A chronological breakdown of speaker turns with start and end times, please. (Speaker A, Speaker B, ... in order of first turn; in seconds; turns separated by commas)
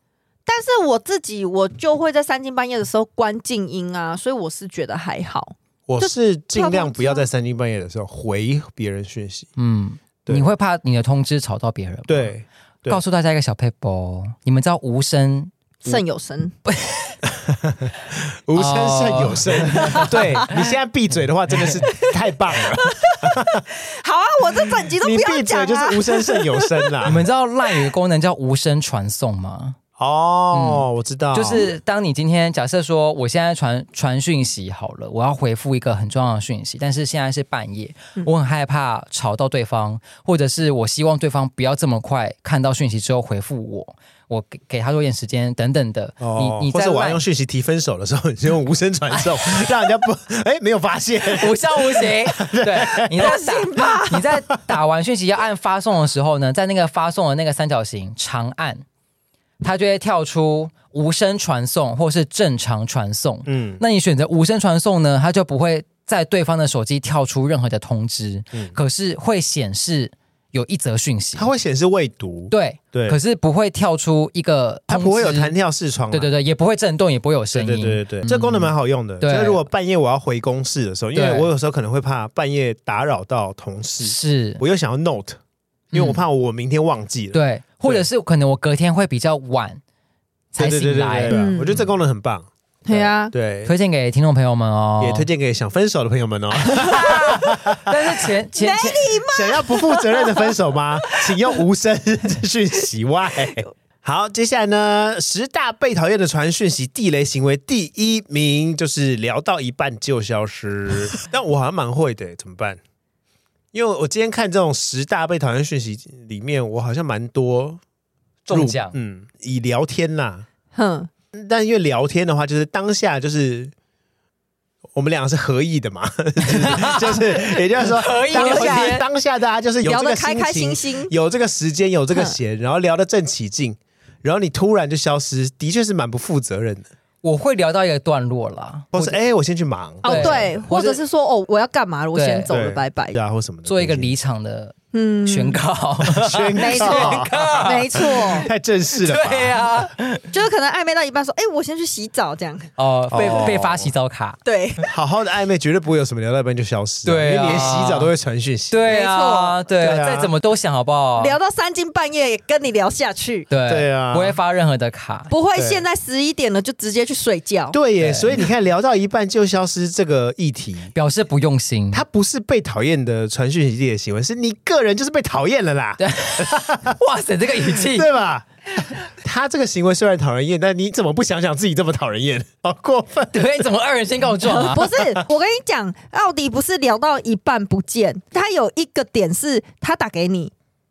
Speaker A: 0.5-7.3, Speaker B: 5.9-9.5, Speaker C: 9.6-12.3, Speaker B: 12.1-13.0, Speaker C: 12.9-16.0, Speaker A: 15.8-16.5, Speaker C: 16.6-17.2, Speaker B: 17.3-23.6, Speaker C: 18.6-20.7, Speaker A: 22.8-26.9, Speaker B: 24.9-27.2, Speaker C: 27.0-29.8, Speaker B: 30.0-31.7, Speaker C: 30.5-47.2, Speaker B: 46.2-53.3, Speaker C: 49.1-49.7, Speaker C: 51.4-58.8, Speaker A: 53.2-54.2, Speaker C: 59.6-71.5, Speaker B: 63.5-63.8, Speaker B: 71.3-73.2, Speaker C: 72.5-75.5, Speaker B: 74.9-76.3, Speaker C: 76.1-79.6, Speaker B: 77.5-85.4, Speaker C: 81.1-81.5, Speaker C: 84.0-84.6, Speaker C: 85.9-86.2, Speaker B: 85.9-88.0, Speaker C: 87.3-89.8, Speaker B: 90.5-93.7, Speaker C: 90.5-91.8, Speaker A: 91.3-91.8, Speaker A: 92.8-93.3, Speaker C: 93.6-95.3, Speaker B: 95.0-97.9, Speaker A: 96.6-97.4, Speaker C: 96.8-99.2, Speaker A: 98.5-101.5, Speaker B: 99.3-112.8, Speaker B: 113.7-117.8, Speaker C: 118.5-119.0, Speaker B: 118.5-120.5, Speaker A: 120.7-121.1, Speaker B: 121.3-123.7, Speaker B: 124.9-136.9, Speaker C: 126.4-129.0, Speaker A: 128.3-129.0, Speaker A: 129.8-131.1, Speaker C: 137.2-139.2, Speaker B: 138.9-140.5, Speaker C: 140.0-141.0, Speaker A: 140.0-143.2, Speaker C: 142.1-142.6, Speaker B: 142.5-144.1, Speaker C: 143.7-148.3, Speaker A: 144.9-145.6, Speaker B: 146.1-149.7, Speaker A: 146.6-148.5, Speaker C: 149.0-150.3, Speaker A: 150.3-153.5, Speaker C: 152.8-154.4, Speaker B: 153.1-153.9, Speaker A: 154.4-154.9, Speaker B: 154.9-158.9, Speaker C: 157.0-158.1, Speaker C: 158.7-161.4, Speaker A: 158.9-159.7, Speaker B: 159.8-160.3, Speaker A: 161.2-163.5, Speaker C: 163.5-165.3, Speaker B: 163.7-164.4, Speaker A: 165.3-167.8, Speaker B: 165.5-165.8, Speaker B: 167.7-170.9, Speaker C: 168.0-168.4, Speaker C: 170.9-172.0, Speaker B: 171.9-177.0, Speaker C: 176.0-178.1, Speaker B: 177.6-183.6, Speaker C: 183.3-184.9, Speaker A: 184.4-190.5